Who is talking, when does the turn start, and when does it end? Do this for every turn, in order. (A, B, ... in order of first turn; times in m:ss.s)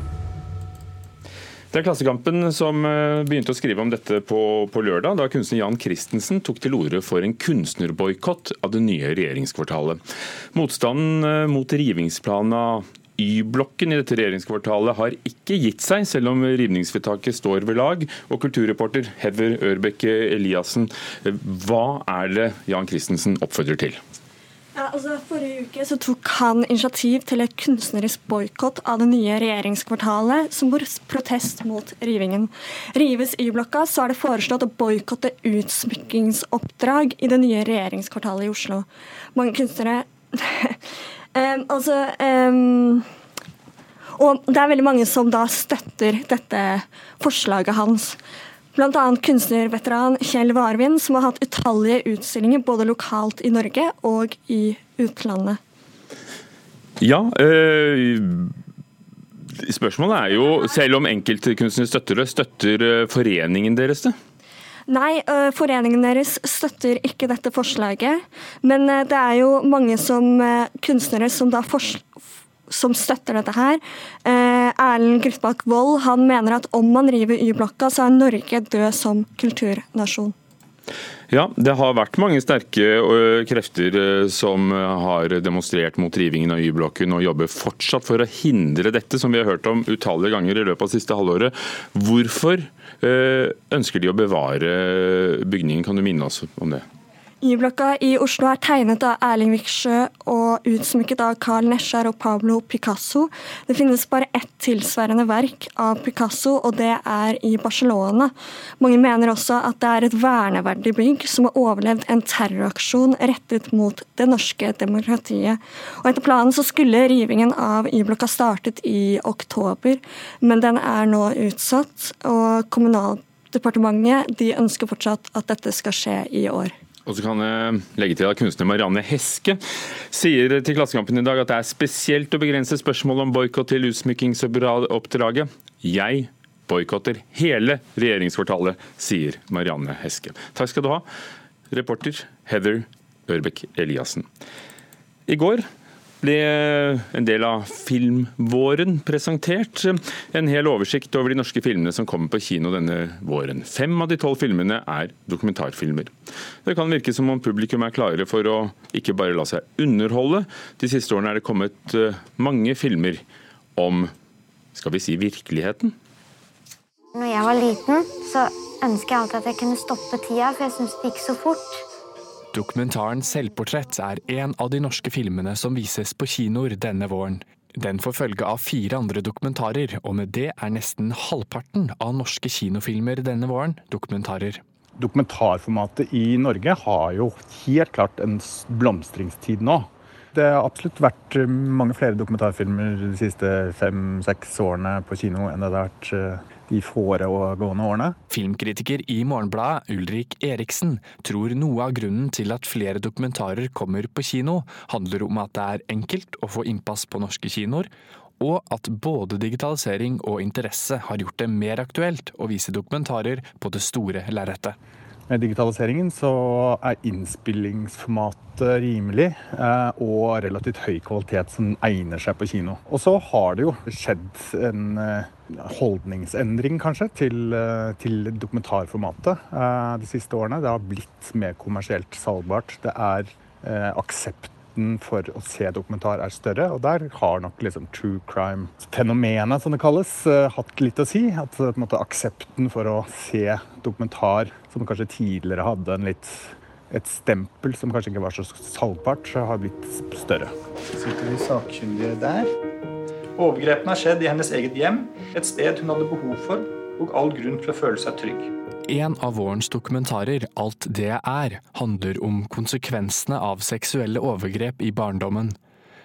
0:01.7-0:10.0 A
0:10.5-0:24.0 A
0:24.8-0:40.8 B
0:41.4-0:43.0 B
0:44.2-0:48.2 B
0:48.8-0:55.6 B
0:57.0-0:58.5 A
0:59.6-1:04.2 A
1:04.9-1:12.0 B
1:12.7-1:20.3 B
1:21.3-1:36.8 A
1:37.4-2:06.7 B
2:07.1-2:09.6 A
2:10.1-2:21.0 A
2:21.7-2:24.3 A
2:25.3-2:25.6 A
2:26.2-2:36.1 A
2:36.6-2:43.2 A
2:43.8-2:44.1 A
2:44.7-2:45.9 A
2:47.1-2:51.8 C
2:52.5-3:04.6 D
3:05.0-3:18.2 E
3:18.3-3:34.8 D
3:35.3-4:10.5 E
4:11.0-4:12.5 F
4:13.4-4:18.5 F
4:18.8-4:25.6 D